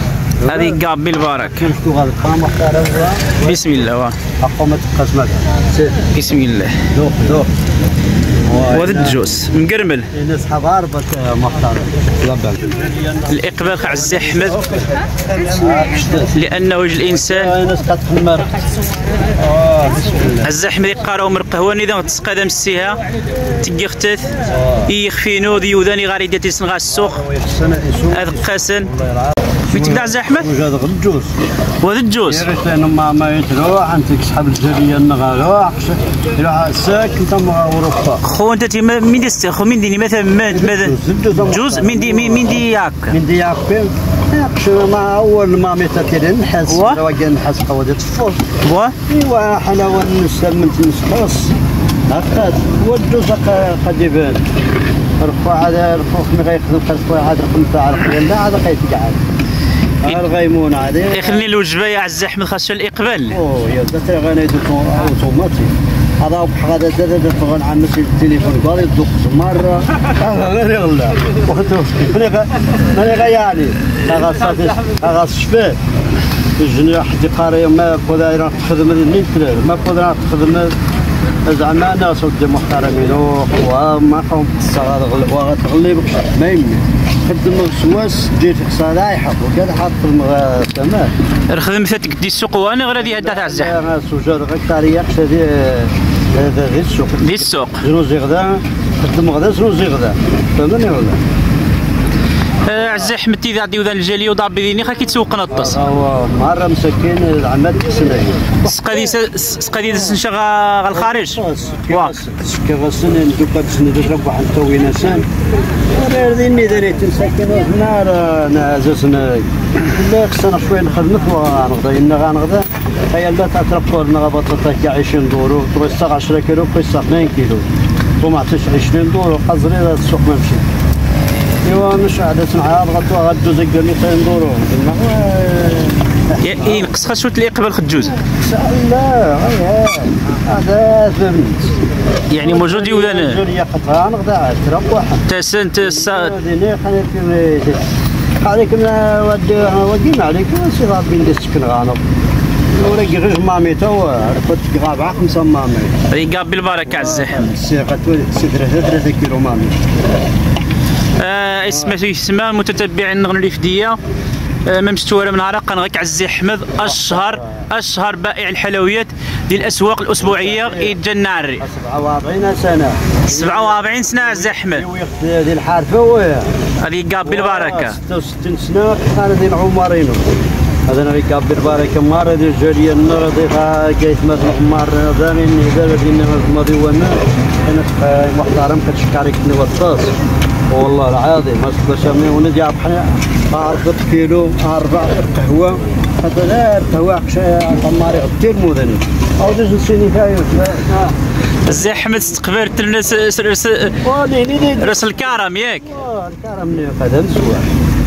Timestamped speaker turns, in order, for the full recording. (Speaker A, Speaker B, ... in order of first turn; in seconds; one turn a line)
Speaker A: 0.4-0.8
Speaker B: 0.5-1.7
Speaker A: 1.5-3.4
Speaker B: 3.4-4.2
Speaker A: 4.4-6.0
Speaker B: 6.1-6.8
Speaker A: 6.9-7.5
Speaker A: 8.5-9.2
Speaker B: 8.7-10.1
Speaker A: 10.1-16.4
Speaker B: 13.3-14.5
Speaker B: 16.3-17.5
Speaker A: 17.1-18.5
Speaker A: 19.4-20.5
Speaker B: 20.4-23.0
Speaker B: 23.6-24.3
Speaker A: 24.5-24.9
Speaker B: 24.9-27.2
Speaker A: 26.9-31.3
Speaker B: 28.1-28.9
Speaker B: 29.7-30.5
Speaker B: 31.8-32.5
Speaker A: 32.3-38.2
Speaker B: 38.2-40.9
Speaker A: 40.5-48.5
Speaker B: 41.5-43.1
Speaker B: 46.7-47.0
Speaker B: 48.6-48.9
Speaker A: 49.1-51.5
Speaker A: 52.1-54.4
Speaker A: 55.2-59.2
Speaker A: 60.0-61.5
Speaker B: 61.1-63.4
Speaker A: 63.3-75.8
Speaker A: 76.6-80.7
Speaker A: 81.5-91.1
Speaker B: 91.5-93.7
Speaker A: 93.0-101.2
Speaker B: 97.2-97.8
Speaker B: 102.7-105.8
Speaker A: 105.5-108.6
Speaker B: 108.6-111.4
Speaker A: 110.9-115.2
Speaker A: 115.9-127.7
Speaker A: 128.2-130.7
Speaker A: 131.6-136.9
Speaker B: 136.4-138.2
Speaker A: 138.3-141.8
Speaker B: 142.3-143.4
Speaker A: 142.4-145.2
Speaker B: 145.3-146.3
Speaker A: 145.8-147.8
Speaker A: 148.4-152.0
Speaker A: 152.7-156.0
Speaker B: 156.1-157.5
Speaker A: 156.8-159.8
Speaker B: 161.2-164.0
Speaker B: 164.7-171.6
Speaker A: 166.8-167.6
Speaker A: 170.2-171.0
Speaker A: 171.6-176.5
Speaker B: 173.3-174.8
Speaker B: 176.8-178.0
Speaker A: 177.2-180.2
Speaker A: 180.9-190.1
Speaker A: 190.7-201.1
Speaker B: 201.7-204.0
Speaker A: 204.0-207.7
Speaker B: 204.8-205.9